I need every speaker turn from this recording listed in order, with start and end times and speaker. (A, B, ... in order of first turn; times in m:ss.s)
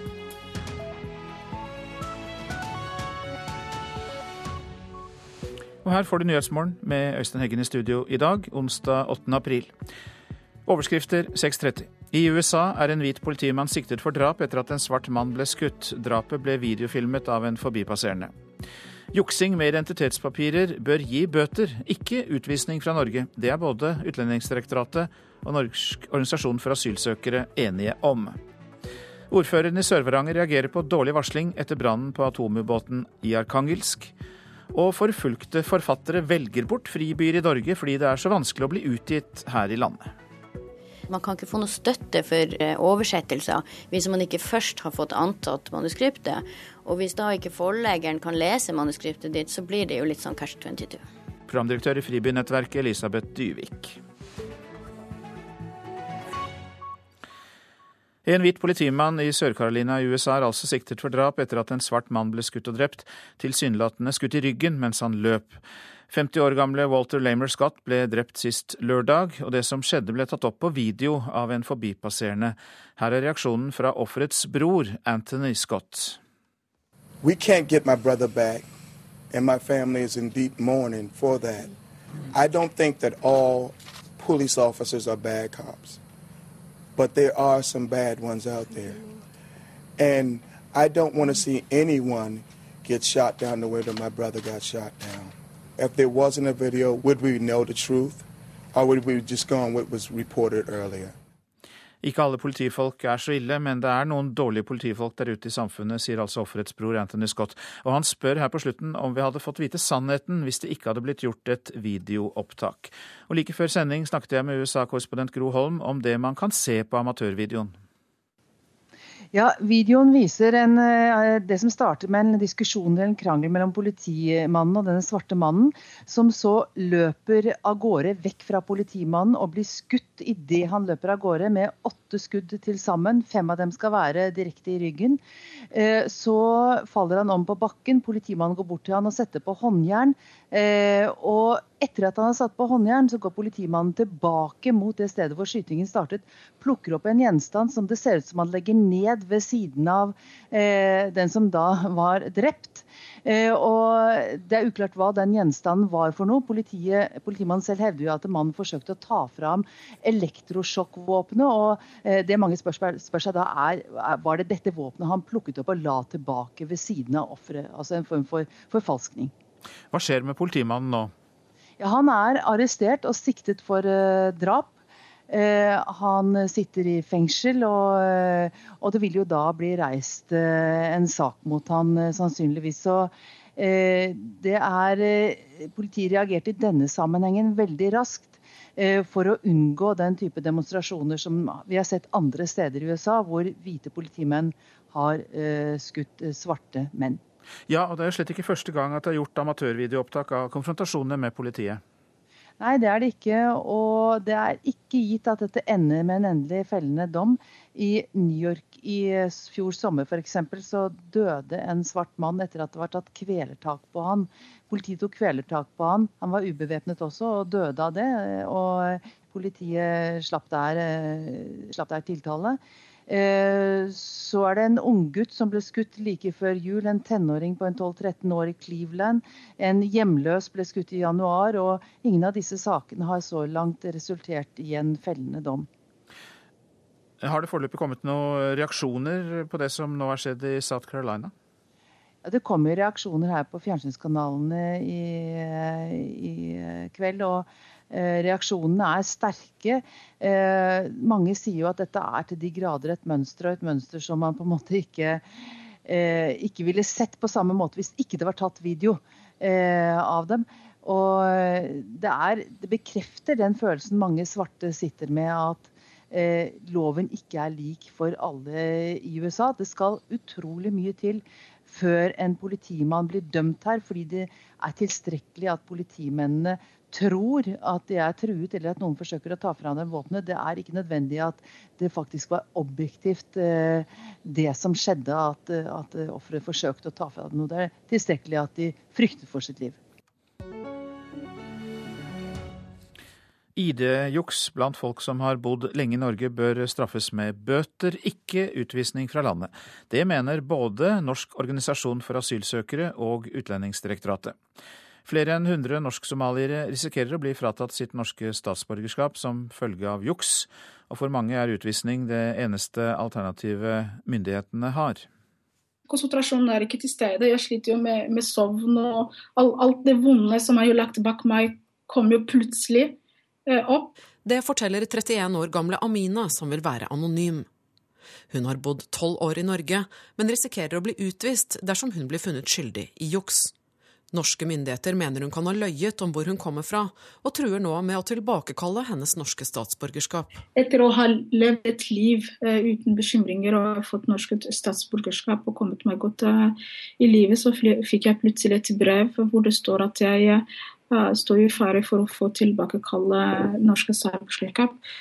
0:05.8-0:09.7 A
0:10.7-0:18.3 A
0:19.1-0:28.4 A
0:29.3-0:34.1 A
0:34.7-0:40.1 A
0:41.1-0:51.0 B
0:51.5-0:54.0 A
0:58.2-1:16.2 A
1:17.2-1:18.6 C
1:19.3-1:21.7 C
1:22.3-1:26.0 C
1:27.0-1:29.0 C
1:30.0-1:41.1 C
1:42.0-1:57.8 A
1:59.3-2:49.3 D
2:49.9-2:51.1 A
2:51.8-2:54.7 D
2:55.3-3:17.2 D
3:17.7-3:21.8 A
3:22.6-3:55.7 D
3:57.2-4:01.3 A
4:02.2-4:15.2 D
4:15.8-4:49.8 D
4:53.6-5:04.4 A
5:05.1-5:15.1 A
5:15.9-5:24.0 E
5:24.2-5:27.5 F
5:28.3-5:33.5 F
5:34.1-5:40.4 F
5:40.6-5:54.8 E